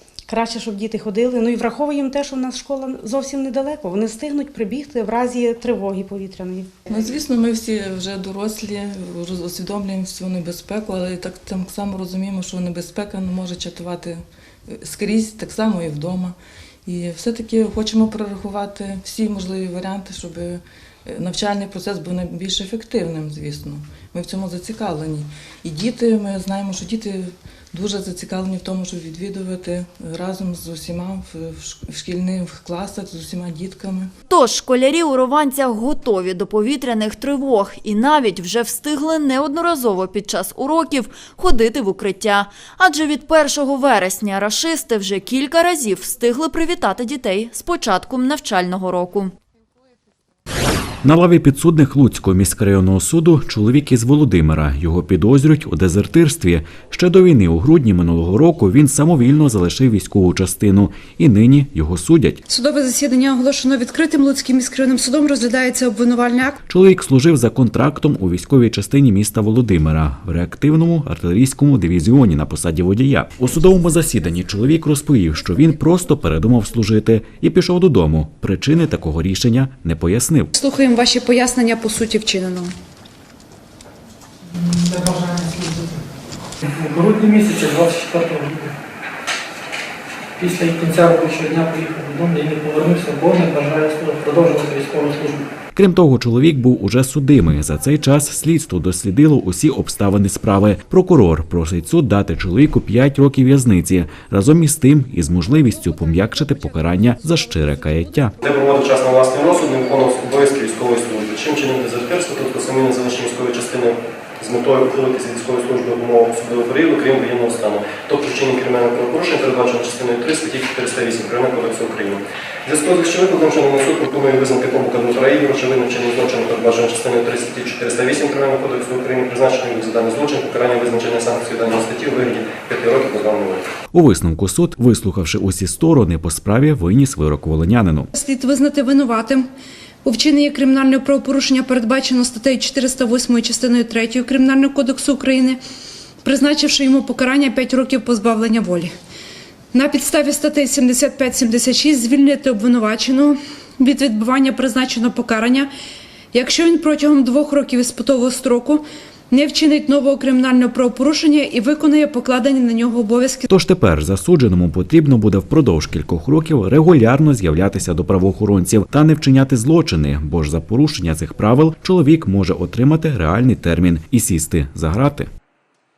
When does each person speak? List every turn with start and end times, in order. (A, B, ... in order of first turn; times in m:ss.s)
0:00.3-0:06.7 A
0:06.9-0:34.1 B
0:34.3-0:49.3 C
0:51.0-1:02.4 D
1:02.5-1:06.6 E
1:06.7-1:20.5 D
1:20.6-1:22.7 E
1:24.6-1:26.0 F
1:26.6-1:28.7 F
1:30.4-1:35.5 F
1:35.7-1:48.4 D
1:48.4-2:13.7 G
2:13.9-2:18.1 D
2:18.2-2:19.5 E
2:20.0-2:25.6 E
2:26.2-2:29.0 E
2:29.7-2:35.7 E
2:36.3-2:43.5 E
2:43.5-2:55.3 D